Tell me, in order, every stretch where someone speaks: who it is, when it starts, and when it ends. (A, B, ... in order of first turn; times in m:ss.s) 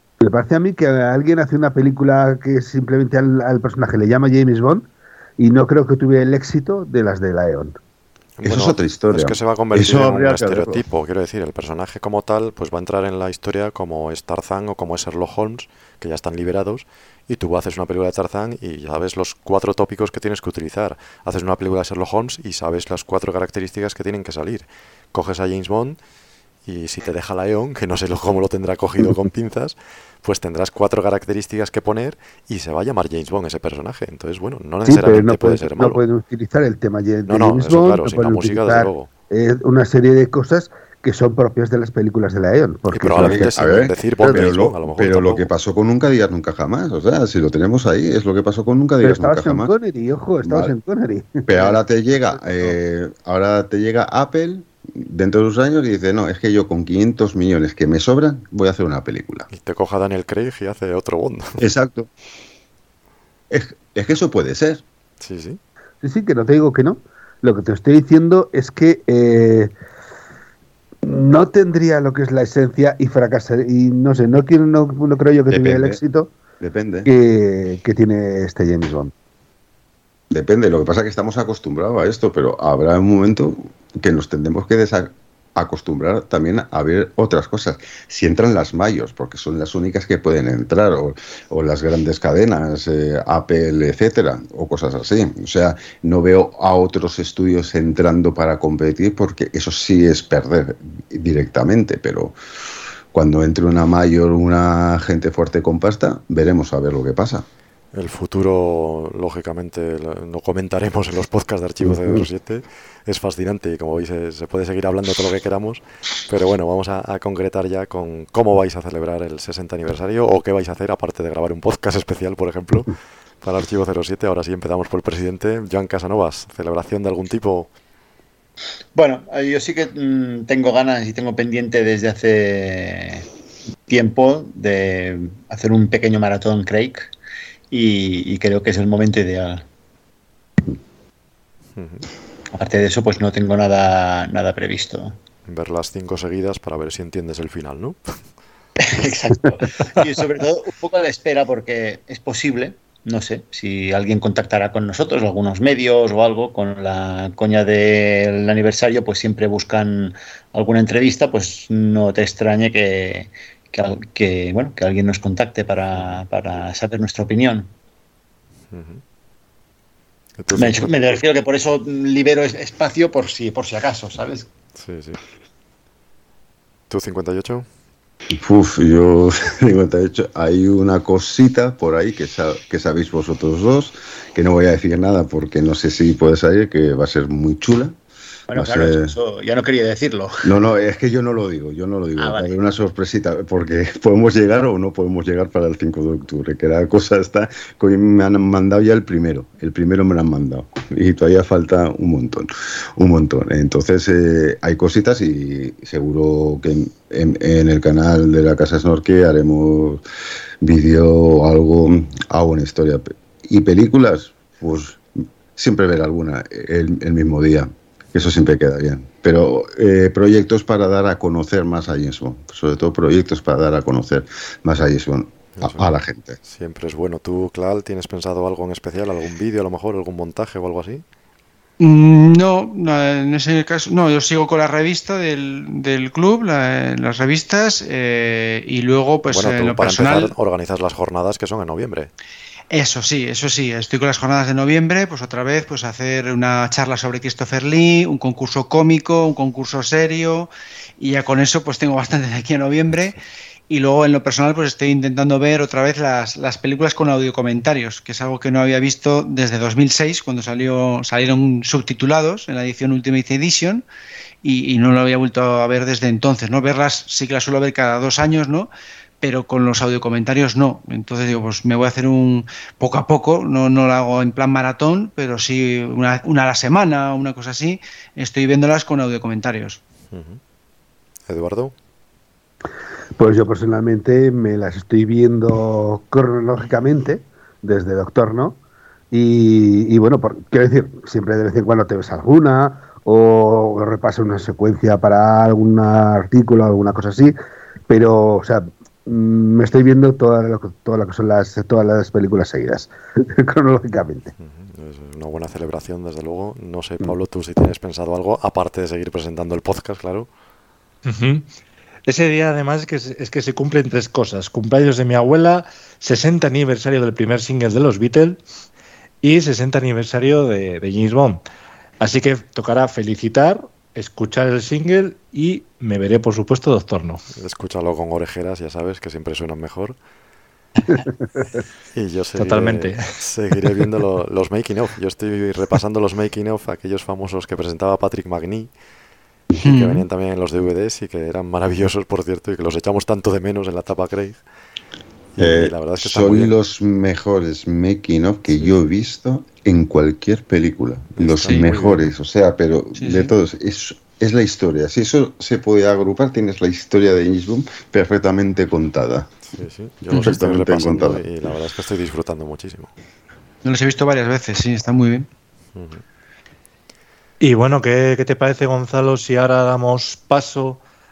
0:00.2-0:07.7 A
0:08.4-0:26.0 B
0:08.4-0:10.8 C
0:26.6-0:36.0 B
0:34.8-0:43.7 A
0:37.2-0:39.1 B
0:42.9-0:45.5 B
0:43.2-0:49.7 C
0:49.0-0:51.8 A
0:51.4-0:59.5 C
0:52.3-0:52.7 A
0:59.5-1:01.6 B
1:01.6-1:02.1 C
1:03.5-1:04.8 C
1:05.2-1:05.6 B
1:06.0-1:09.7 A
1:11.0-1:16.3 A
1:15.5-1:16.0 C
1:16.6-1:17.1 C
1:17.0-1:19.1 A
1:20.3-1:42.4 C
1:43.1-1:47.4 C
1:47.9-2:07.7 B
2:09.0-2:13.2 D
2:13.9-2:17.1 D
2:17.7-2:19.6 D
2:21.8-2:22.1 B
2:22.5-2:25.2 D
2:25.5-2:28.0 B
2:28.8-2:47.7 D
2:45.9-2:46.2 B
2:48.7-2:49.0 B
2:50.4-2:50.9 B
2:50.5-2:54.5 D
2:54.7-2:55.2 B
2:56.9-2:57.6 B
2:58.3-3:08.0 C
3:08.5-3:10.5 D
3:08.5-3:09.1 C
3:10.4-3:22.4 C
3:12.2-3:12.5 D
3:23.0-3:30.0 C
3:30.6-3:35.0 C
3:35.5-3:46.4 C
3:45.5-3:45.9 B
3:46.4-3:51.0 B
3:51.8-4:00.3 E
3:59.3-4:02.1 B
4:02.7-4:13.2 E
4:13.7-4:23.8 E
4:24.4-4:28.7 E
4:29.2-4:39.8 E
4:40.1-4:40.4 B
4:41.3-4:41.7 B
4:43.2-4:48.6 A
4:49.1-4:57.3 A
4:57.9-5:04.3 A
5:04.4-5:10.3 B
5:11.0-5:11.5 F
5:12.1-5:18.4 F
5:19.2-5:21.4 F
5:22.0-5:27.2 F
5:27.4-5:30.0 B
5:31.9-5:38.7 B
5:32.4-5:33.0 F
5:39.6-5:44.4 B
5:39.6-5:40.0 E
5:45.3-5:46.5 B
5:45.4-5:59.3 C
5:51.1-5:52.1 B
5:51.4-5:51.7 E
5:53.0-5:53.3 E
5:59.4-6:02.9 B
6:00.1-6:01.2 C
6:03.6-6:05.3 E
6:05.7-6:06.0 B
6:07.4-6:10.8 F